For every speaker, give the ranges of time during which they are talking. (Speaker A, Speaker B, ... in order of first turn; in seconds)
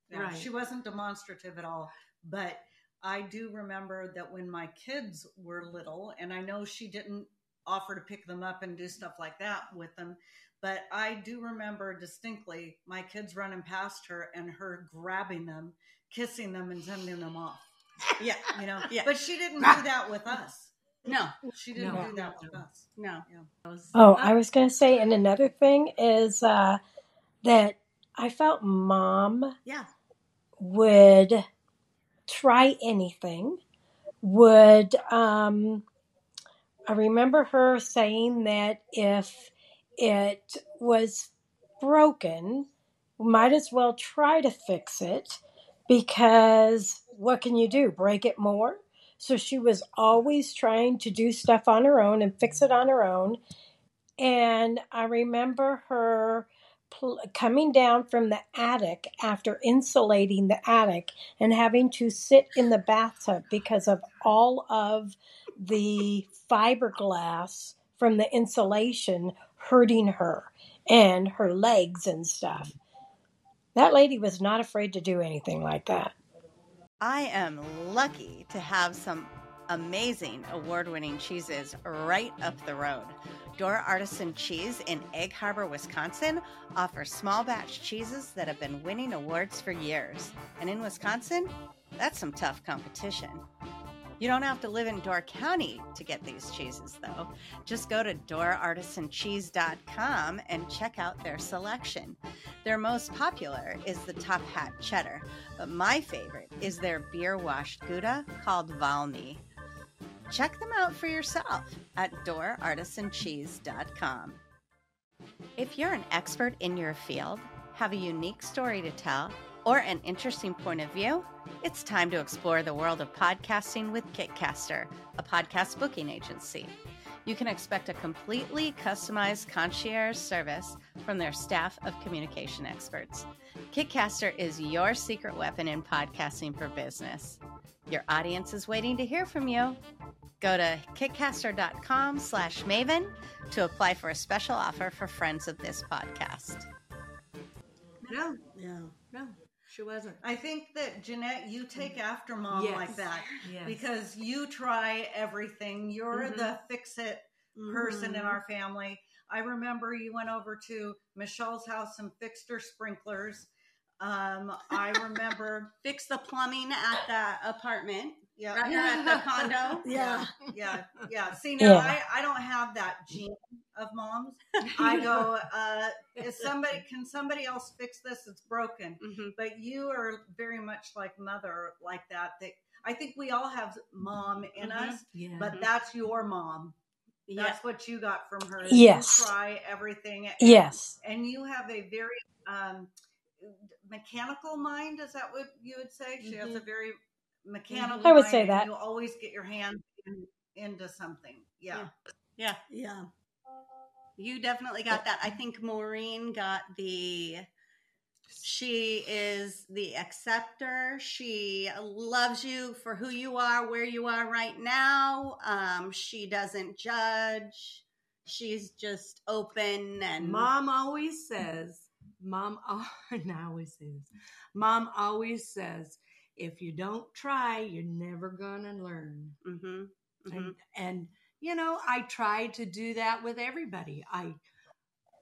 Speaker A: 0.1-17.6, 18.5-20.7, 21.4-23.5, 150.2-165.7, 168.3-169.2, 169.9-186.7, 187.3-201.9
Speaker B: 0.1-0.5, 21.8-22.6, 148.1-148.4, 149.1-150.2, 152.5-153.8, 168.7-169.2, 174.7-175.2, 185.1-185.6, 197.7-198.1, 220.2-229.3, 230.3-234.4
Speaker C: 18.2-19.1, 21.1-21.4, 22.9-23.9, 77.0-93.4, 94.2-109.4, 110.3-114.4, 115.6-126.7, 127.2-139.8, 140.4-146.7, 156.1-156.5, 165.8-170.3, 179.0-179.3, 184.6-185.7, 187.3-187.6, 201.7-202.6, 204.2-207.5, 208.4-220.5, 229.4-230.6
Speaker D: 23.9-26.8, 27.4-29.6, 30.6-31.4, 32.3-33.6, 34.2-35.8, 36.9-42.7, 43.2-53.4, 54.2-72.8, 73.7-76.1, 171.6-172.0, 188.7-189.3, 190.4-190.9, 198.0-198.7
Speaker E: 29.6-29.9, 148.5-148.9, 157.5-158.4, 169.8-170.3, 202.7-203.1